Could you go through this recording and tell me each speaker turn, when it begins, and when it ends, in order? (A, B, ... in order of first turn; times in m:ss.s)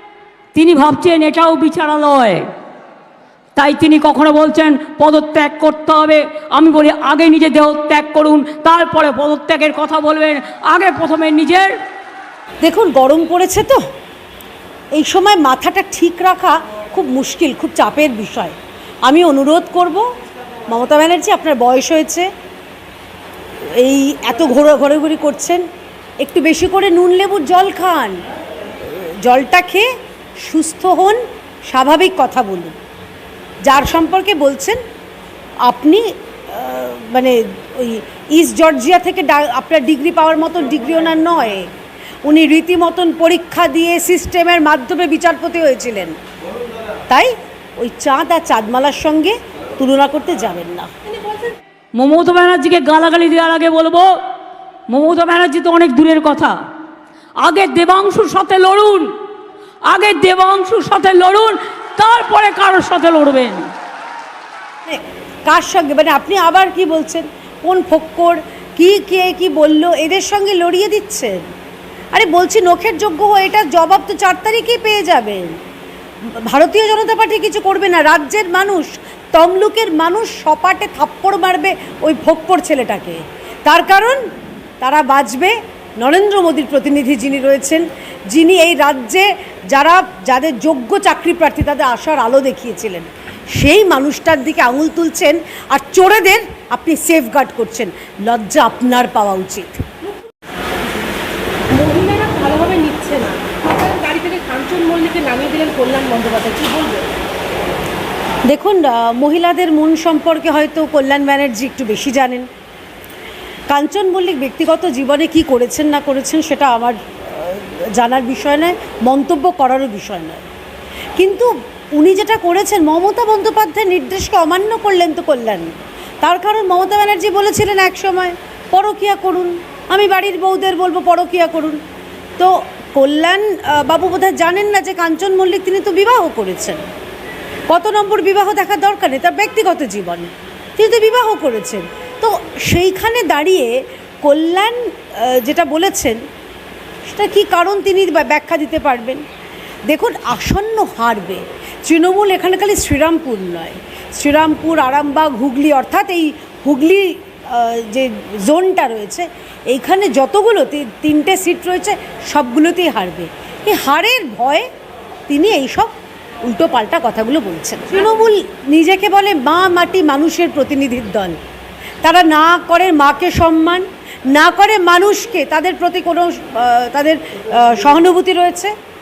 0:00.5-0:02.4 A
0:03.6-0:11.7 A
0:12.6-0:13.8 B
0:14.9-0:20.0 B
0:20.7-0:22.3 B
0:23.6-0:25.6 B
0:26.2-0:28.2 B
0:28.8-0:29.9 B
0:30.4-0:32.8 B
0:33.6-0:34.8 B
0:35.6-0:41.7 B
0:42.2-0:46.2 B
0:47.1-0:50.9 B
0:51.1-0:51.6 C
0:52.0-0:54.1 A
0:54.9-0:56.5 A
0:57.4-0:59.1 A
0:59.9-1:03.6 A
1:04.8-1:11.4 B
1:12.1-1:15.6 B
1:16.3-1:24.2 B
1:24.8-1:39.8 B
1:40.0-1:40.3 C
1:41.7-1:47.1 C
1:48.4-1:52.5 B
1:53.7-2:00.4 B
2:01.2-2:05.7 B
2:06.2-2:11.8 B
2:12.4-2:16.8 B
2:17.7-2:26.2 B
2:27.1-2:29.2 B
2:29.9-2:44.6 B
2:45.3-2:45.9 B
2:46.4-2:51.4 B
2:52.0-2:58.7 B